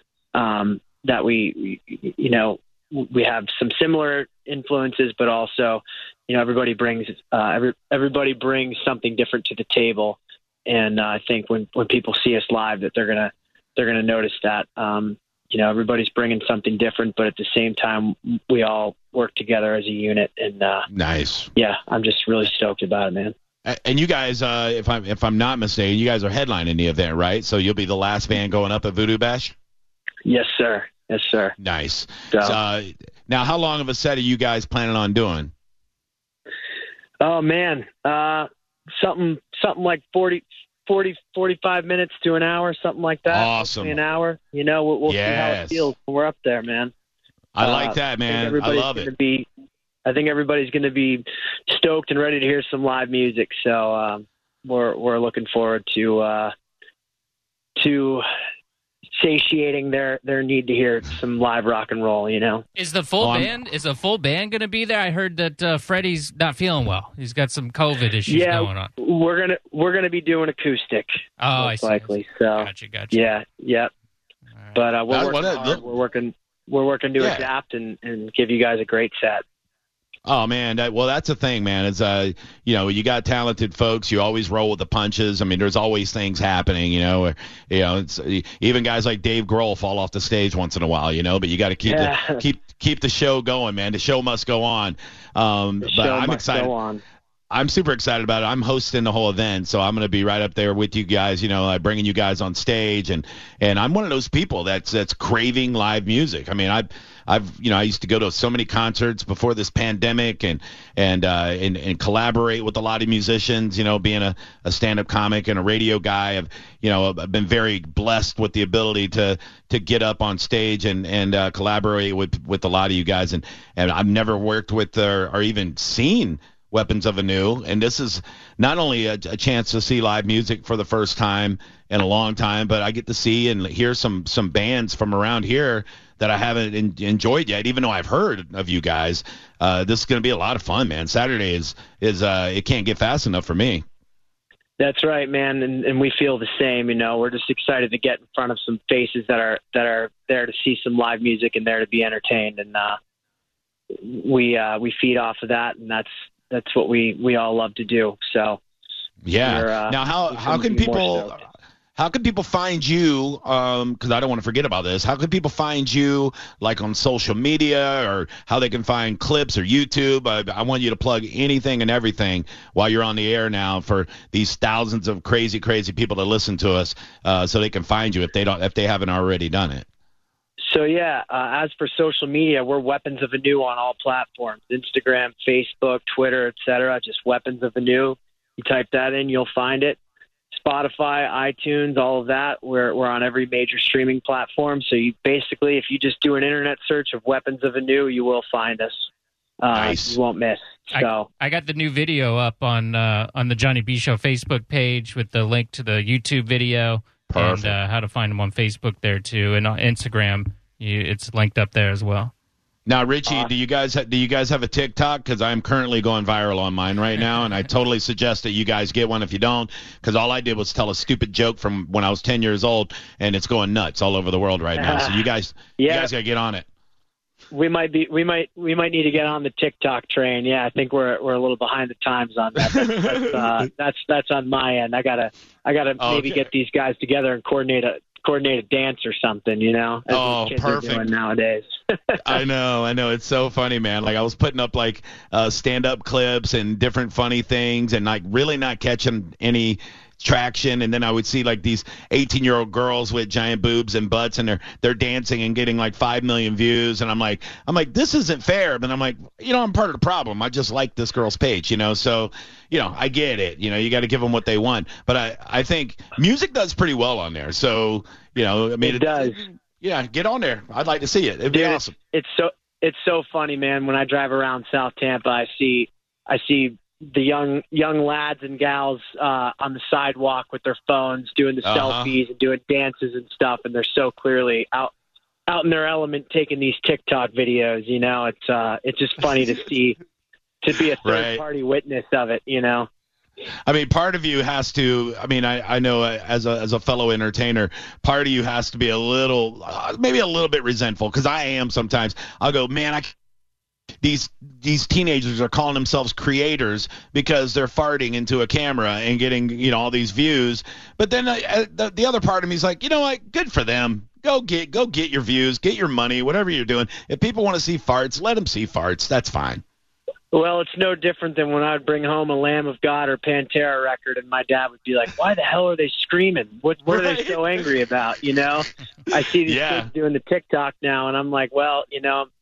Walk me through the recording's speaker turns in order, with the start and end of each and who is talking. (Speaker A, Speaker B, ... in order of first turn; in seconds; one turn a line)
Speaker A: 0.3-20.9
Speaker B: 20.9-21.5
Speaker A: 21.6-23.3
Speaker B: 23.7-29.5
Speaker A: 30.2-31.5
Speaker B: 31.6-35.5
Speaker A: 32.3-32.6
Speaker A: 37.2-46.9
Speaker B: 43.3-44.0
Speaker B: 45.1-45.9
Speaker B: 47.5-49.1
Speaker A: 47.6-49.5
Speaker A: 50.0-56.5
Speaker A: 57.8-58.2
Speaker A: 59.2-62.6
Speaker C: 62.8-68.9
Speaker B: 63.2-63.6
Speaker A: 68.3-73.9
Speaker C: 71.4-73.2
Speaker C: 74.6-74.8
Speaker A: 74.8-79.4
Speaker B: 75.1-75.8
Speaker B: 77.2-77.5
Speaker B: 80.3-96.7
Speaker A: 91.9-92.5
Speaker A: 95.8-97.0
Speaker B: 97.5-143.8
Speaker A: 144.8-153.0
Speaker A: 154.0-158.6
Speaker B: 159.2-161.4
Speaker A: 159.4-161.4
Speaker B: 162.0-179.9
Speaker A: 180.6-190.0
Speaker A: 190.5-199.1
Speaker A: 199.6-201.3
Speaker B: 199.7-200.2
Speaker C: 200.9-212.3
Speaker B: 207.3-207.8
Speaker B: 212.9-226.7
Speaker A: 224.8-225.2
Speaker A: 225.8-226.1
Speaker A: 227.5-242.2
Speaker B: 232.7-233.2
Speaker B: 236.0-236.5
Speaker B: 240.1-241.1
Speaker B: 242.2-271.9
Speaker A: 268.8-269.5
Speaker A: 271.5-284.9
Speaker B: 281.6-282.1
Speaker A: 285.5-290.0
Speaker A: 290.6-292.9
Speaker B: 291.0-291.4
Speaker B: 293.7-303.1
Speaker B: 304.0-319.6
Speaker A: 320.3-332.3
Speaker B: 326.9-327.6
Speaker B: 329.4-329.9